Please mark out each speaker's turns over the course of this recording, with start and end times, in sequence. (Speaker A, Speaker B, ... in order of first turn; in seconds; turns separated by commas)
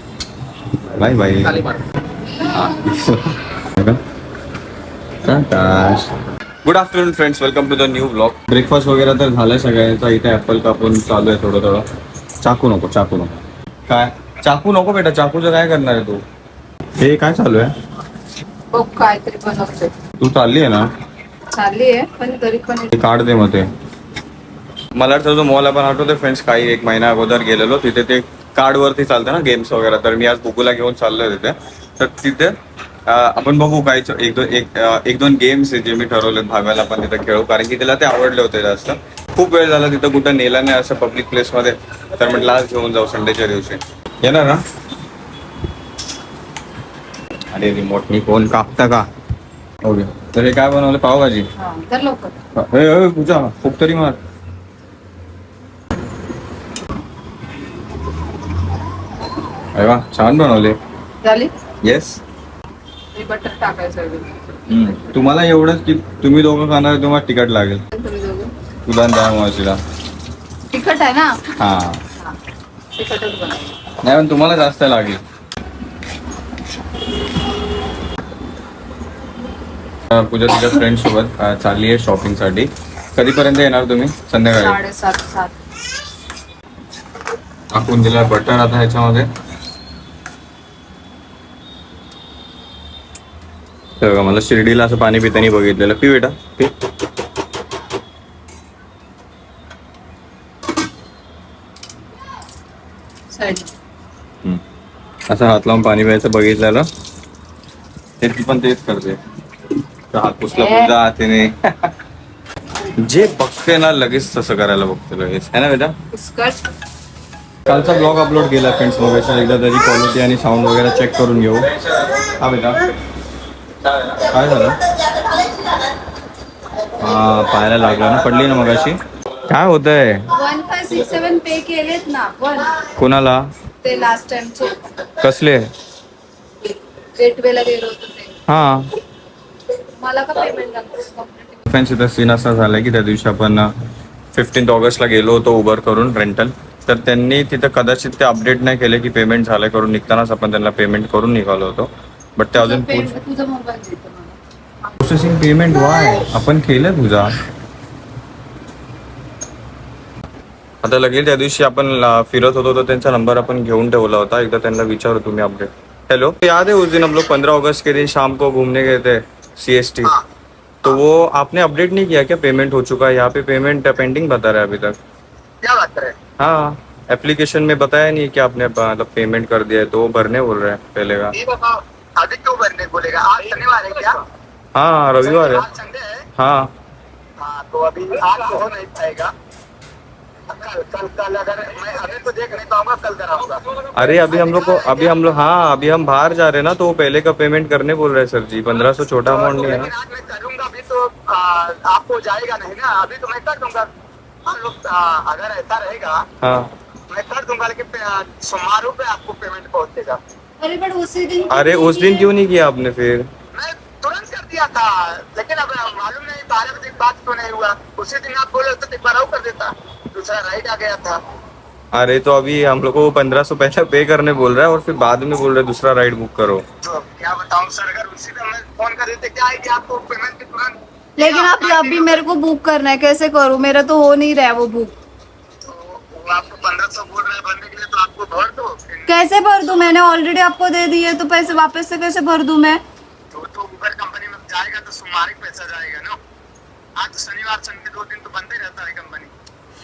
Speaker A: 0.9-1.7, Speaker A: 2.4-4.0, Speaker A: 5.2-6.1, Speaker A: 6.6-11.8, Speaker A: 12.4-16.2, Speaker A: 17.0-17.7, Speaker B: 18.7-19.9, Speaker A: 20.2-20.9, Speaker B: 21.5-22.9, Speaker A: 22.9-23.7, Speaker A: 24.9-32.5, Speaker A: 33.1-44.6, Speaker A: 47.5-49.1, Speaker A: 49.8-51.5, Speaker B: 51.6-52.3, Speaker A: 52.5-54.2, Speaker A: 59.7-60.8, Speaker B: 61.2-61.5, Speaker A: 61.8-62.2, Speaker B: 63.1-64.5, Speaker A: 64.7-67.8, Speaker B: 67.9-68.5, Speaker A: 68.8-69.8, Speaker B: 70.7-71.3, Speaker A: 71.6-72.0, Speaker B: 73.0-73.8, Speaker A: 74.0-75.2, Speaker A: 80.1-84.8, Speaker B: 84.5-85.5, Speaker A: 87.7-89.3, Speaker A: 94.0-96.7, Speaker B: 103.3-103.7, Speaker A: 105.3-106.9, Speaker A: 108.2-109.2, Speaker A: 110.1-111.9, Speaker B: 110.5-110.9, Speaker A: 113.0-116.0, Speaker B: 116.1-116.6, Speaker A: 117.7-122.9, Speaker A: 123.9-124.8, Speaker A: 127.0-130.2, Speaker B: 130.3-132.8, Speaker A: 132.9-133.5, Speaker B: 133.8-134.9, Speaker A: 135.2-135.7, Speaker B: 136.7-138.4, Speaker A: 138.5-138.9, Speaker B: 140.0-141.7, Speaker A: 141.7-143.7, Speaker A: 144.3-153.1, Speaker B: 152.5-154.4, Speaker A: 155.0-157.3, Speaker A: 160.8-170.1, Speaker A: 170.8-175.0, Speaker C: 175.6-176.2, Speaker A: 176.4-181.3, Speaker C: 181.3-184.2, Speaker A: 184.7-185.6, Speaker C: 185.2-186.1, Speaker A: 186.4-186.7, Speaker C: 187.4-189.3, Speaker C: 190.5-193.6, Speaker A: 193.9-199.9, Speaker C: 194.2-195.1, Speaker C: 199.1-203.9, Speaker C: 204.4-206.2, Speaker A: 206.4-206.7, Speaker C: 207.1-210.2, Speaker B: 210.6-212.3, Speaker A: 211.5-213.3, Speaker C: 213.5-221.2, Speaker A: 221.9-226.6, Speaker C: 226.8-232.2, Speaker B: 231.2-234.9, Speaker C: 235.6-240.0, Speaker B: 239.1-242.8, Speaker C: 243.3-246.2, Speaker C: 247.0-249.3